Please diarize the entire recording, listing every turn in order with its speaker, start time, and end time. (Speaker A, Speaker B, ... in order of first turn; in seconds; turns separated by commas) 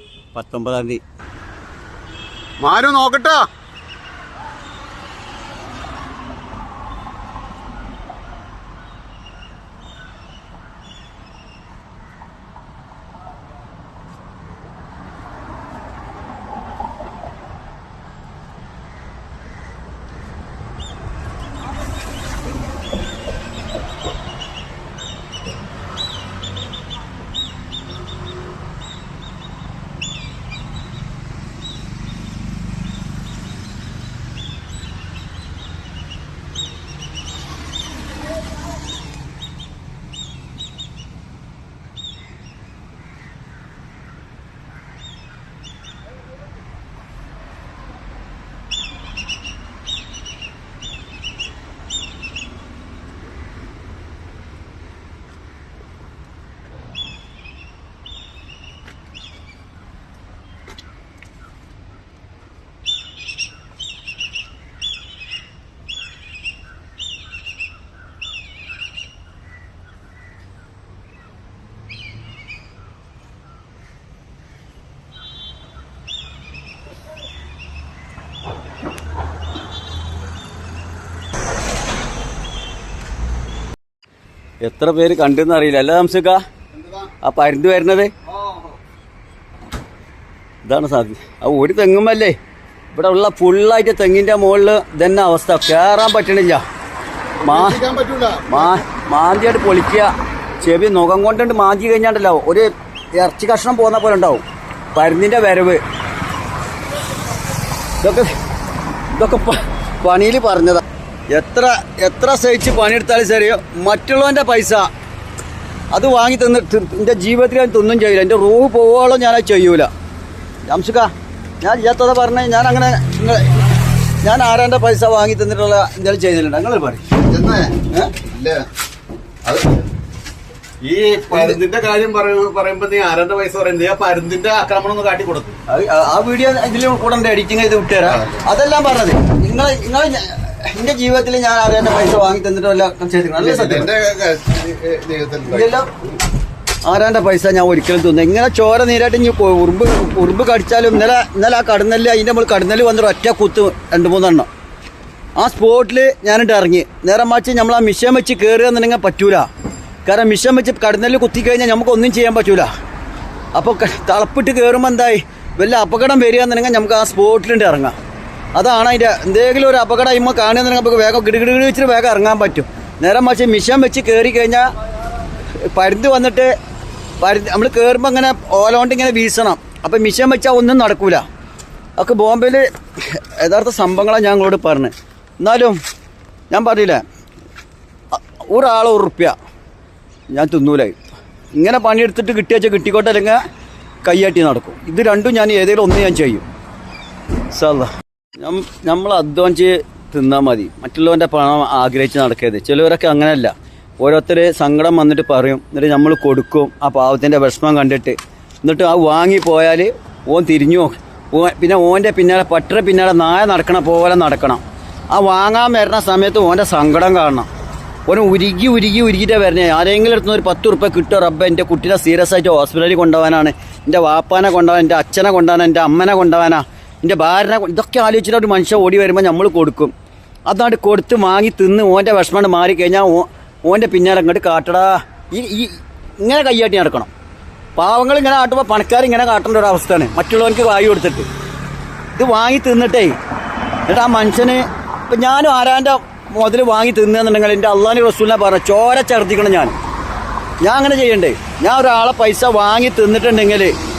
Speaker A: 0.3-1.0, Speaker B: 2.6-3.4, Speaker A: 84.6-86.4, Speaker A: 87.2-88.1, Speaker A: 90.6-92.3, Speaker A: 92.9-96.6, Speaker A: 97.4-97.9, Speaker B: 97.9-98.4, Speaker A: 98.5-104.4, Speaker A: 104.9-105.8, Speaker A: 108.0-108.3, Speaker A: 109.1-114.9, Speaker A: 115.9-119.9, Speaker A: 120.7-123.6, Speaker A: 124.2-127.1, Speaker B: 127.3-128.6, Speaker A: 127.8-128.1, Speaker B: 129.5-129.8, Speaker B: 130.8-135.6, Speaker A: 135.7-143.9, Speaker B: 143.7-145.6, Speaker A: 145.4-145.9, Speaker A: 146.8-154.5, Speaker A: 155.4-159.5, Speaker A: 160.0-162.7, Speaker A: 163.5-167.9, Speaker A: 168.6-174.7, Speaker A: 175.3-176.5, Speaker A: 177.2-181.2, Speaker A: 182.0-185.8, Speaker A: 186.5-187.0, Speaker A: 188.1-189.3, Speaker A: 190.3-191.0, Speaker A: 191.6-193.4, Speaker A: 194.0-196.4, Speaker A: 197.5-217.5, Speaker A: 218.1-229.9, Speaker A: 230.5-237.1, Speaker A: 237.8-241.3, Speaker A: 242.1-243.2, Speaker A: 243.9-249.7, Speaker A: 250.6-253.7